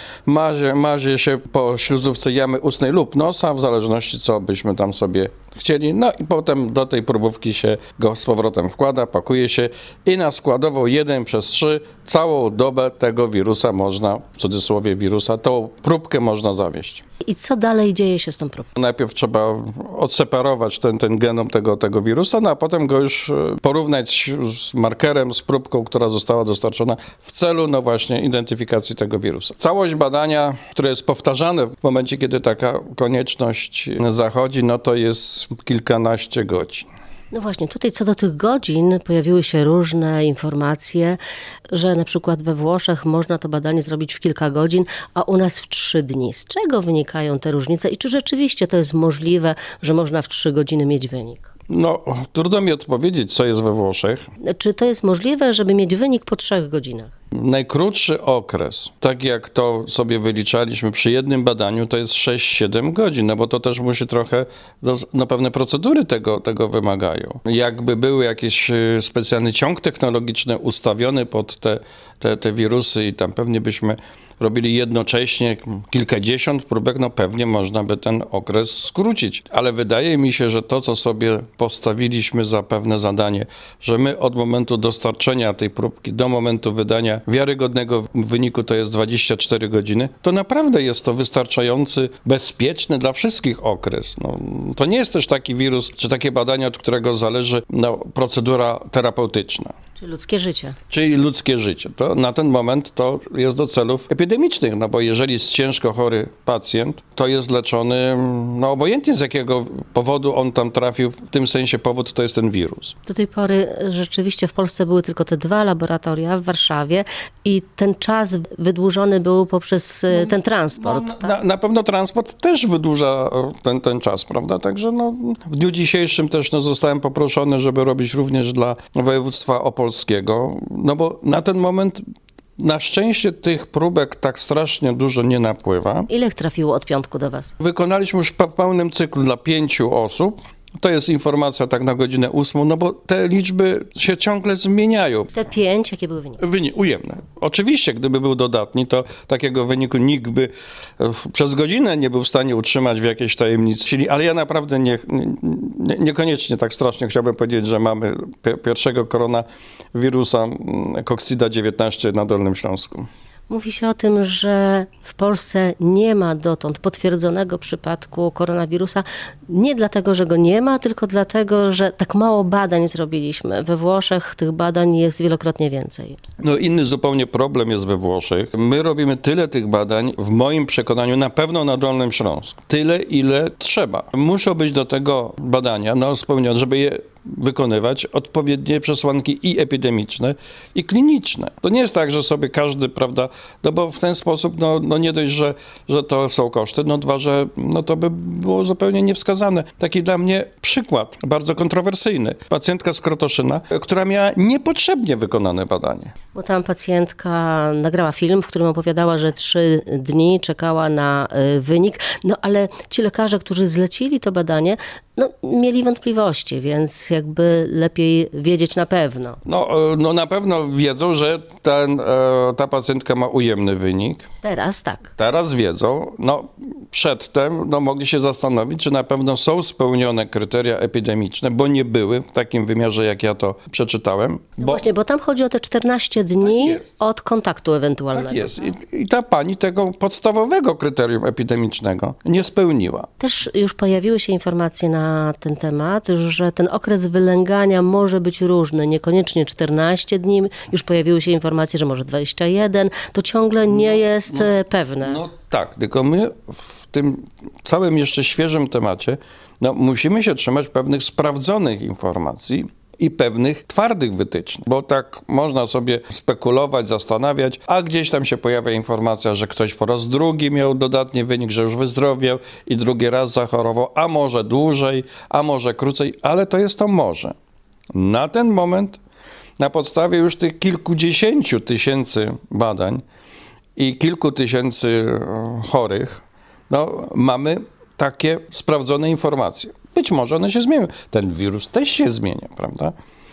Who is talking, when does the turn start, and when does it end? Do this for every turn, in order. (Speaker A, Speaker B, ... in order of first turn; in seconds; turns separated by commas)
Speaker A: 0.2-17.0, Speaker B: 17.2-18.7, Speaker A: 18.7-36.9, Speaker B: 37.3-41.2, Speaker B: 41.7-51.5, Speaker A: 51.7-54.2, Speaker B: 54.4-57.1, Speaker A: 57.3-99.7, Speaker B: 100.0-100.8, Speaker A: 100.9-112.9, Speaker B: 113.0-121.3, Speaker A: 120.1-132.0, Speaker A: 132.6-136.1, Speaker B: 136.1-137.5, Speaker A: 137.6-145.3, Speaker B: 145.3-146.4, Speaker A: 146.4-163.1, Speaker B: 163.5-176.2, Speaker A: 176.4-206.1, Speaker B: 206.3-219.4, Speaker A: 219.4-224.3, Speaker B: 224.4-225.1, Speaker A: 225.2-234.8, Speaker B: 234.6-238.6, Speaker A: 236.4-236.9, Speaker A: 238.1-243.1, Speaker B: 243.2-255.2, Speaker A: 253.7-277.3, Speaker A: 277.9-279.0, Speaker A: 279.6-283.0, Speaker A: 283.8-292.9